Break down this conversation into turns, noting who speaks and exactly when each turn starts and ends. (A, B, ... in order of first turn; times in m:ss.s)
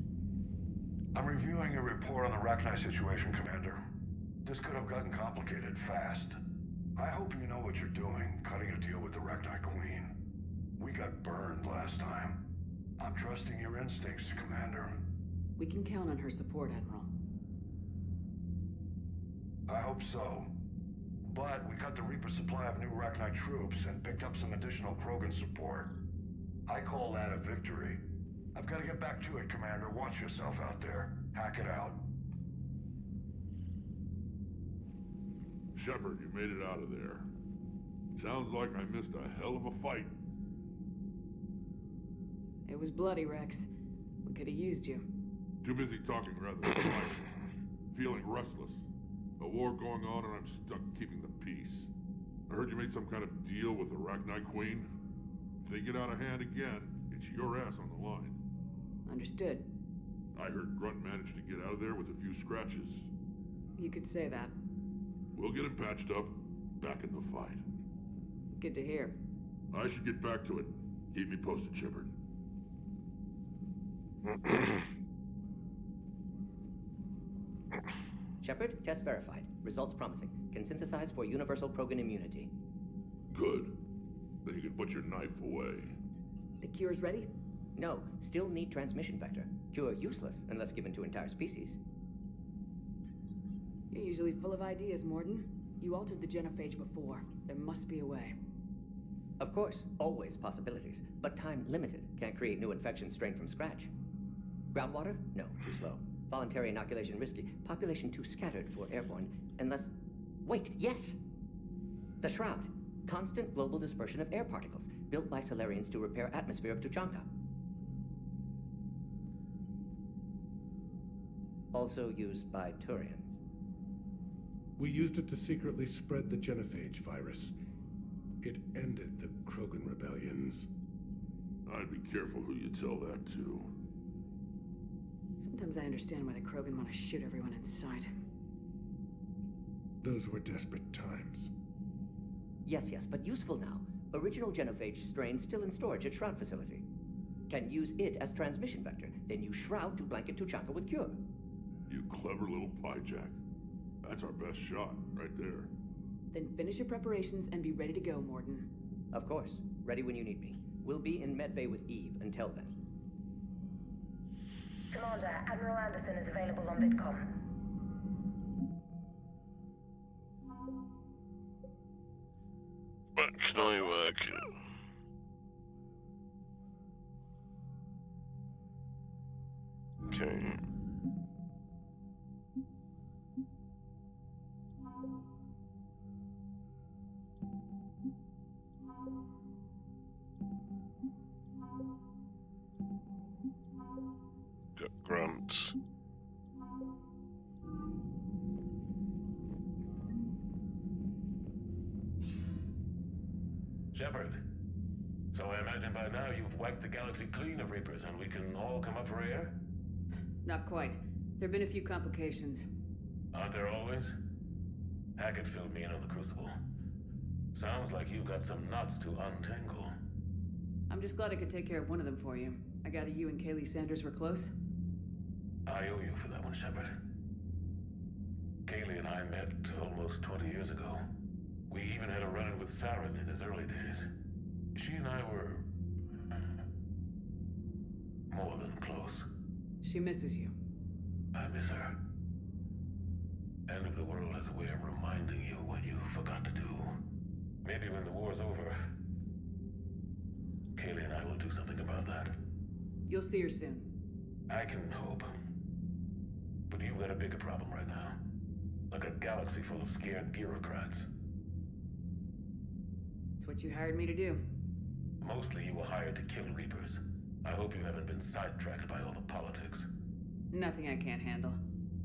0:01.1-0:03.8 A
0:04.4-0:06.4 A
0:07.0-0:10.1 A
0:10.8-0:12.4 A
0:13.0-0:15.0 A
0:15.6-0:17.1 B
0:19.7-0:20.5 A
0:21.2-0:25.9 A
0:26.7-0:28.0 A
0:28.5-0:32.0 A
0:35.7-0:37.3 C
0:38.1-0:40.1 C
0:42.6-0:43.7 B
0:44.2-0:45.0 B
0:45.6-0:47.4 C
0:47.9-0:48.9 C
0:49.4-0:51.9 C
0:52.5-0:54.9 C
0:55.6-0:58.4 C
0:59.0-0:59.6 B
1:00.3-1:03.1 C
1:03.8-1:04.5 B
1:05.4-1:07.6 C
1:08.5-1:09.2 B
1:09.7-1:12.1 C
1:18.4-1:22.5 D
1:23.3-1:23.8 C
1:24.4-1:26.0 C
1:26.6-1:27.3 B
1:27.8-1:31.8 D
1:33.9-1:38.3 B
1:39.4-1:43.9 D
1:44.7-1:49.9 D
1:50.4-1:51.2 D
1:52.2-1:57.3 D
2:01.7-2:03.3 D
2:04.8-2:07.5 E
2:08.4-2:10.7 E
2:11.6-2:13.7 C
2:15.4-2:18.1 B
2:20.0-2:21.5 E
2:22.6-2:26.8 D
2:27.5-2:31.2 D
2:31.9-2:33.4 C
2:34.0-2:35.7 C
2:36.3-2:38.7 B
2:39.1-2:42.7 D
2:44.9-2:47.3 F
2:53.2-2:54.4 G
3:00.1-3:00.5 G
3:14.8-3:15.7 G
3:23.9-3:24.4 H
3:25.3-3:29.6 H
3:30.4-3:32.6 B
3:33.3-3:34.1 H
3:35.2-3:36.5 H
3:37.5-3:39.9 H
3:40.9-3:44.5 B
3:45.6-3:47.0 H
3:48.6-3:51.0 H
3:51.7-3:54.1 H
3:54.7-3:55.7 H
3:58.3-3:59.2 H
3:59.8-4:00.5 B
4:01.3-4:02.0 H
4:03.7-4:07.0 H
4:07.6-4:08.8 H
4:10.7-4:12.3 H
4:13.1-4:13.9 B
4:14.5-4:15.3 H
4:16.7-4:18.2 H
4:18.9-4:21.1 H
4:23.4-4:24.4 B
4:25.2-4:29.9 H
4:30.5-4:31.6 B